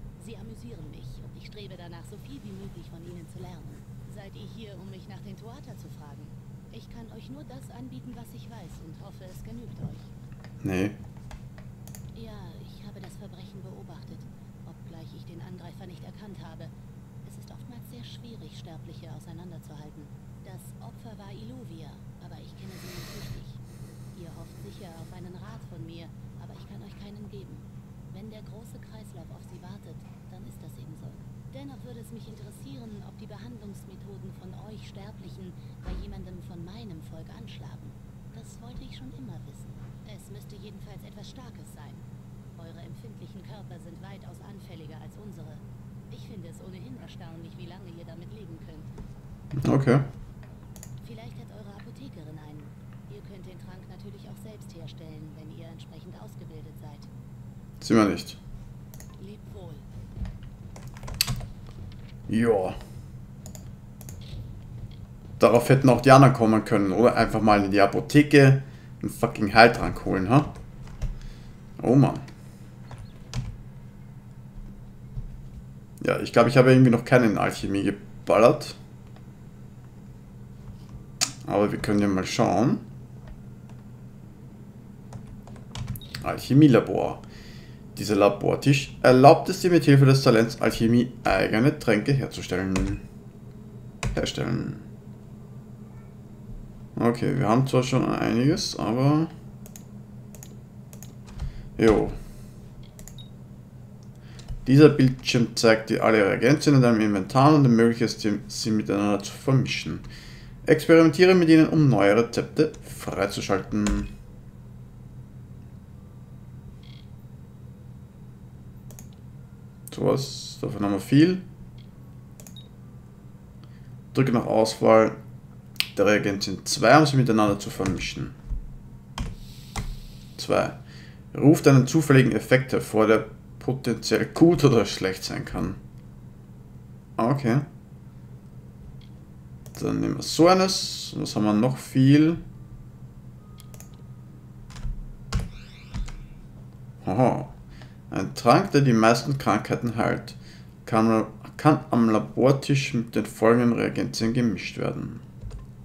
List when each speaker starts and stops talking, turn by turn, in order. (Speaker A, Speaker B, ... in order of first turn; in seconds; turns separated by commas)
Speaker A: 0.2-10.1, Speaker B: 10.6-11.0, Speaker A: 12.1-23.6, Speaker A: 24.1-48.9, Speaker B: 49.6-50.1, Speaker A: 51.0-57.1, Speaker B: 57.8-58.4, Speaker A: 59.2-59.9, Speaker B: 62.3-62.8, Speaker B: 65.4-70.5, Speaker B: 71.8-72.3, Speaker B: 76.0-78.8, Speaker B: 81.5-82.9, Speaker B: 86.2-87.2, Speaker B: 88.0-93.0, Speaker B: 94.1-94.9, Speaker B: 97.0-99.3, Speaker B: 101.8-102.2, Speaker B: 104.7-110.0, Speaker B: 110.7-114.1, Speaker B: 119.9-121.5, Speaker B: 124.1-125.2, Speaker B: 126.0-128.3, Speaker B: 130.4-130.8, Speaker B: 131.3-135.8, Speaker B: 137.2-137.7, Speaker B: 139.7-142.4, Speaker B: 147.0-147.5, Speaker B: 148.1-155.2